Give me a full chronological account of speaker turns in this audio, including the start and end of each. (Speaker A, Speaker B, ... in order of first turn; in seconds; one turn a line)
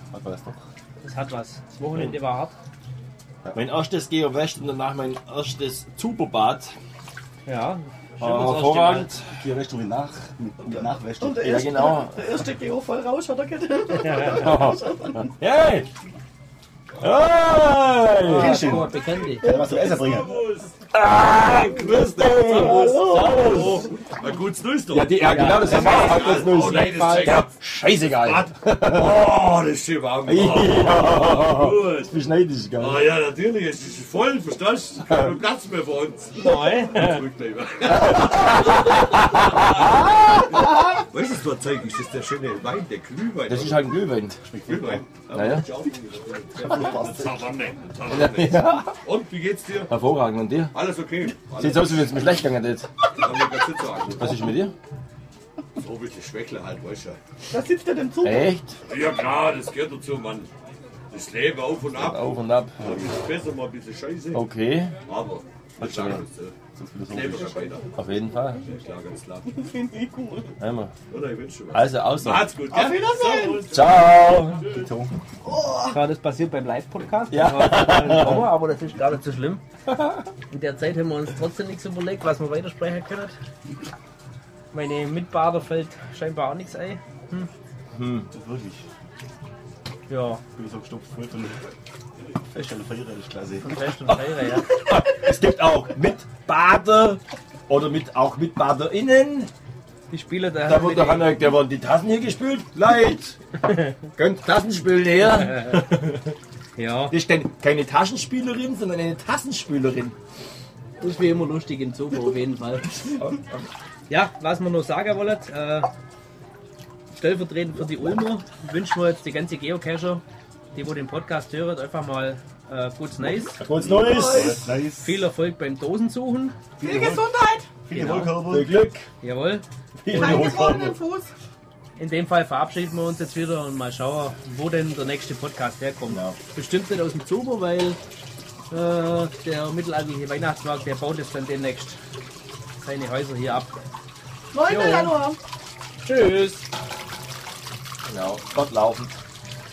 Speaker A: 0.1-0.6
Speaker B: 1.0-2.5
Speaker C: 3.5-6.7
Speaker B: 7.4-9.1
Speaker C: 8.2-9.3
Speaker A: 9.2-11.4
Speaker C: 10.7-12.5
Speaker D: 11.2-15.3
Speaker B: 14.0-14.5
Speaker C: 14.3-15.9
Speaker C: 17.0-18.9
Speaker B: 18.2-19.6
Speaker A: 18.2-20.4
Speaker D: 19.4-20.0
Speaker E: 19.6-20.8
Speaker C: 20.9-23.9
Speaker E: 21.3-27.5
Speaker D: 22.5-23.9
Speaker C: 24.9-29.4
Speaker B: 25.3-27.4
Speaker E: 28.2-32.1
Speaker C: 30.2-33.2
Speaker E: 32.8-44.0
Speaker B: 36.3-37.2
Speaker C: 37.9-40.7
Speaker C: 43.4-44.5
Speaker A: 44.4-45.1
Speaker E: 44.6-49.9
Speaker C: 45.3-45.7
Speaker A: 46.6-47.5
Speaker C: 48.1-49.0
Speaker C: 49.9-50.7
Speaker E: 50.7-52.3
Speaker C: 51.5-52.9
Speaker E: 53.1-54.4
Speaker C: 54.1-54.7
Speaker E: 55.8-57.2
Speaker D: 57.5-58.5
Speaker C: 58.2-58.8
Speaker E: 58.9-60.5
Speaker E: 61.1-64.4
Speaker C: 61.8-62.8
Speaker A: 62.8-63.2
Speaker C: 64.3-64.9
Speaker E: 65.0-66.5
Speaker A: 65.8-66.2
Speaker C: 65.8-66.2
Speaker A: 66.7-67.6
Speaker E: 67.1-69.6
Speaker C: 67.9-68.7
Speaker D: 69.5-70.5
Speaker C: 70.6-70.9
Speaker E: 71.1-74.0
Speaker C: 71.7-72.6
Speaker D: 72.7-73.7
Speaker C: 73.7-74.7
Speaker A: 74.6-75.1
Speaker D: 75.4-76.0
Speaker B: 75.9-79.6
Speaker C: 77.3-78.5
Speaker B: 80.5-83.3
Speaker B: 84.7-87.5
Speaker C: 87.9-88.3
Speaker A: 88.3-88.8
Speaker B: 90.1-90.4
Speaker A: 90.5-91.6
Speaker A: 92.4-93.9
Speaker B: 93.6-94.7
Speaker C: 94.7-99.5
Speaker B: 100.1-101.4
Speaker C: 100.7-103.4
Speaker C: 103.9-106.3
Speaker B: 106.8-107.2
Speaker C: 107.1-110.2
Speaker B: 111.0-113.2
Speaker C: 113.0-113.7
Speaker B: 114.1-115.9
Speaker B: 117.1-123.6
Speaker C: 123.4-124.6
Speaker A: 123.7-125.2
Speaker D: 124.0-124.6
Speaker B: 125.0-126.5
Speaker A: 126.8-127.3
Speaker D: 126.8-127.7
Speaker A: 127.8-128.8
Speaker B: 127.9-128.4
Speaker C: 128.4-129.1
Speaker B: 129.2-129.6
Speaker C: 130.0-131.0
Speaker D: 130.1-131.3
Speaker B: 132.0-138.0
Speaker C: 136.1-136.4
Speaker B: 138.7-142.0
Speaker B: 142.8-143.7
Speaker D: 144.5-145.4
Speaker B: 144.6-145.2
Speaker B: 146.0-146.7
Speaker C: 148.0-149.2